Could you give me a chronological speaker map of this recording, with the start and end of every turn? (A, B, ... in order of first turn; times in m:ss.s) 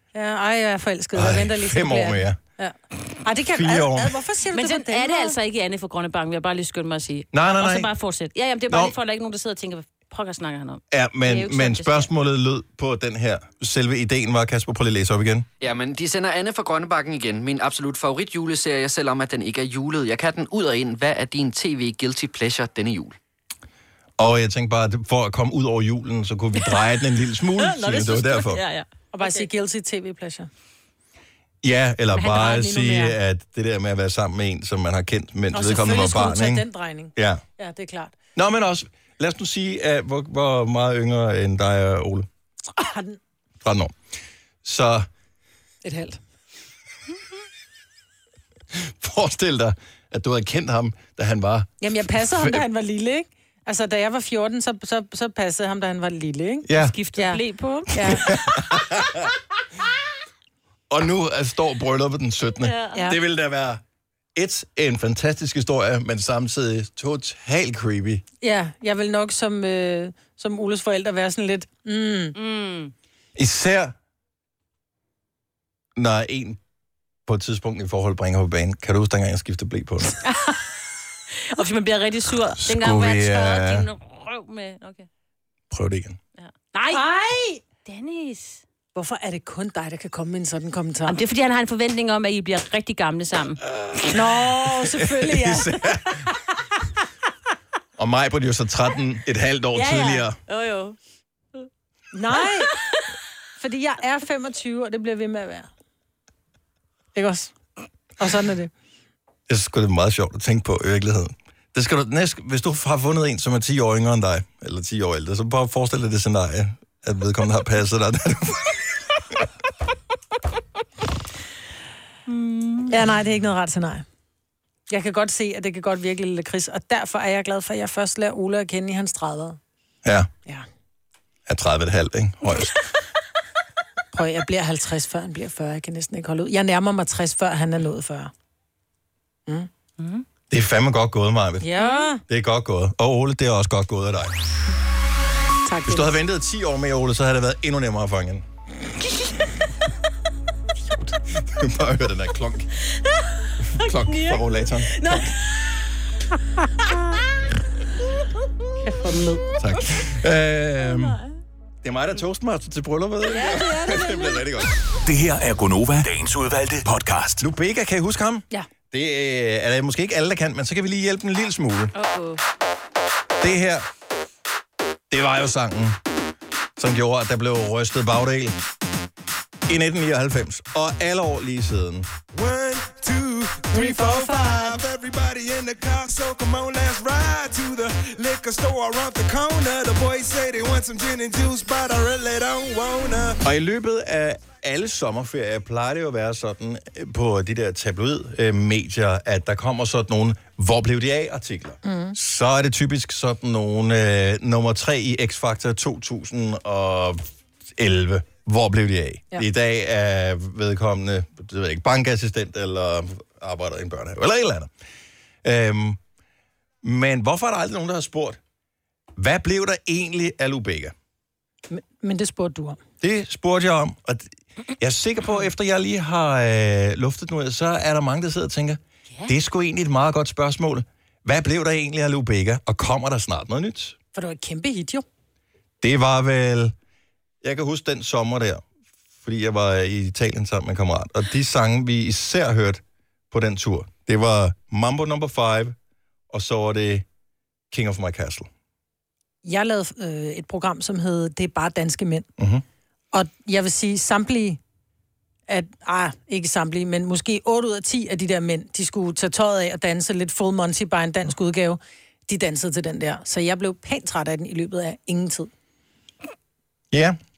0:00.1-0:05.4 A
0:01.1-0:02.4 B
0:03.4-0:04.2 B
0:04.5-0:12.1 C
0:07.3-0:07.9 B
0:08.7-0:09.0 B
0:10.9-0:15.5 B
0:15.6-0:23.2 D
0:24.2-0:28.6 B
0:26.6-0:26.8 C
0:27.6-0:29.5 C
0:29.1-0:30.5 A
0:31.6-0:37.4 B
0:32.2-0:33.2 A
0:32.2-0:32.7 C
0:35.5-0:38.2 A
0:38.4-0:42.3 B
0:42.8-0:43.2 A
0:43.6-0:44.0 B
0:44.6-0:45.1 B
0:45.8-0:46.2 A
0:48.7-0:52.7 B
0:51.8-0:57.4 A
0:56.6-0:57.0 B
0:56.7-0:58.3 C
0:57.9-0:58.4 A
0:58.0-0:59.3 B
1:00.9-1:03.8 B
1:02.6-1:03.1 C
1:02.9-1:03.2 A
1:04.4-1:08.2 B
1:08.4-1:12.4 A
1:12.4-1:12.9 C
1:13.4-1:13.9 B
1:16.0-1:16.6 B
1:17.3-1:20.1 B
1:20.2-1:20.5 C
1:21.4-1:25.1 C
1:22.6-1:23.9 B
1:25.7-1:26.2 B
1:26.4-1:27.0 C
1:26.9-1:27.6 A
1:27.8-1:28.6 C
1:29.0-1:31.2 A
1:31.1-1:33.6 C
1:33.8-1:34.1 B
1:34.1-1:36.0 A
1:34.7-1:36.3 B
1:38.0-1:40.4 B
1:39.7-1:41.0 C
1:42.1-1:42.7 A
1:42.4-1:43.0 C
1:43.6-1:45.7 A
1:47.1-1:47.5 A
1:48.2-1:48.7 A
1:49.5-1:58.8 B
2:02.3-2:03.0 C
2:02.9-2:04.0 A
2:04.9-2:09.6 A
2:10.0-2:10.3 B
2:11.5-2:12.8 B
2:14.1-2:18.3 A
2:20.0-2:20.2 C
2:20.5-2:21.7 B
2:21.6-2:22.2 A
2:21.8-2:22.1 C
2:22.3-2:24.4 B
2:25.6-2:26.1 A
2:25.9-2:28.4 B
2:31.2-2:32.7 B
2:33.6-2:35.3 B
2:33.8-2:35.3 C
2:38.8-2:39.4 A
2:39.6-2:41.2 B
2:41.8-2:44.8 B
2:43.3-2:43.8 C
2:43.3-2:44.4 A
2:45.0-2:47.4 E
2:47.4-2:51.9 B
2:51.9-2:52.4 C
2:53.4-2:53.9 B
2:55.1-2:56.0 B
2:56.8-2:58.6 B
2:59.7-3:02.1 B
3:02.3-3:13.4 F
3:03.7-3:04.8 A
3:13.4-3:34.7 B
3:21.8-3:22.2 A
3:35.4-3:36.0 B
3:36.8-3:38.4 B
3:39.2-3:40.9 B
3:41.7-3:42.8 A
3:43.0-3:54.0 B
3:54.1-3:55.0 A
3:55.8-3:56.8 B
3:57.4-3:58.6 B
3:59.2-4:05.8 B
4:06.3-4:07.1 B
4:07.7-4:08.5 B
4:09.4-4:12.3 A
4:12.4-4:12.6 B
4:13.1-4:14.6 A
4:15.5-4:25.5 A
4:26.9-4:27.2 B